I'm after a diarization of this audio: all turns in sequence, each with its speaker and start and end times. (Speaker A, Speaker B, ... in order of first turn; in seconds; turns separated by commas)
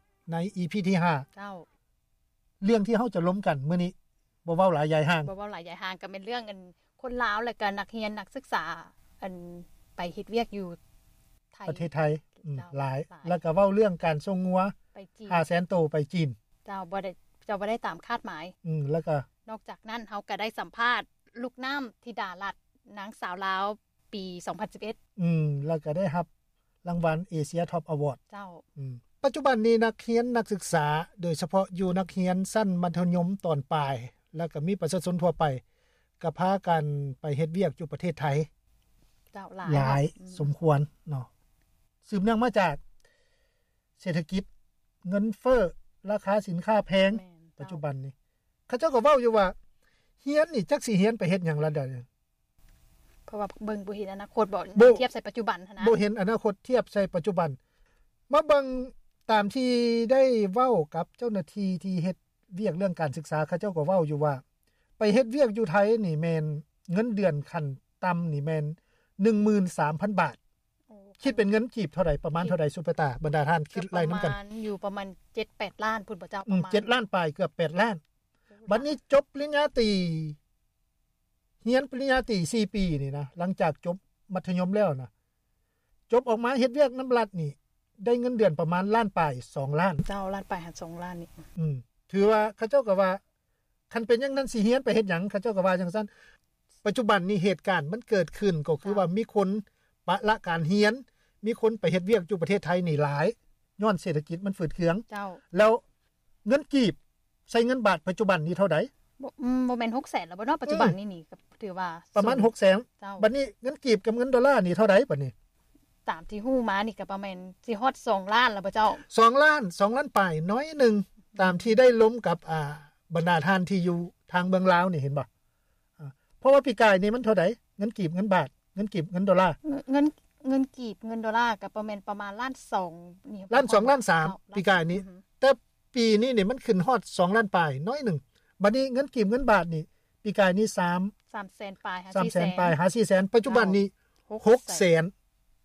Speaker A: 0.3-1.2, Speaker B: 1.3-1.7, Speaker A: 2.6-3.9, Speaker A: 4.4-5.3, Speaker B: 5.2-10.8, Speaker B: 11.5-11.9, Speaker A: 11.7-14.7, Speaker B: 12.4-13.4, Speaker B: 14.9-15.4, Speaker A: 15.3-16.3, Speaker B: 16.6-18.5, Speaker A: 18.6-19.2, Speaker B: 19.4-25.0, Speaker A: 25.1-26.3, Speaker A: 26.8-28.2, Speaker B: 28.3-28.6, Speaker A: 28.8-35.6, Speaker A: 36.2-38.5, Speaker B: 39.3-40.5, Speaker A: 39.6-41.3, Speaker A: 42.0-42.8, Speaker A: 44.0-44.5, Speaker A: 45.0-48.1, Speaker B: 47.1-47.8, Speaker A: 48.7-49.5, Speaker A: 50.2-52.0, Speaker B: 53.3-56.0, Speaker A: 54.8-55.0, Speaker A: 55.8-57.6, Speaker A: 58.3-64.4, Speaker A: 65.0-70.4, Speaker B: 70.9-71.5, Speaker A: 71.2-74.3, Speaker B: 73.7-76.9, Speaker A: 76.5-78.0, Speaker B: 78.6-78.9, Speaker A: 78.7-80.4, Speaker A: 81.6-85.1, Speaker A: 86.1-90.0, Speaker B: 90.0-91.4, Speaker A: 91.5-93.2, Speaker A: 93.9-96.1, Speaker A: 96.8-105.8, Speaker B: 105.1-105.4, Speaker A: 106.4-107.0, Speaker A: 107.5-108.9, Speaker B: 109.2-113.3, Speaker A: 110.7-110.9, Speaker A: 112.2-115.3, Speaker B: 116.0-119.0, Speaker A: 119.0-125.3, Speaker A: 126.0-129.6, Speaker B: 129.6-135.2, Speaker A: 133.5-141.1, Speaker B: 141.3-142.7, Speaker A: 142.1-145.1, Speaker B: 143.4-144.8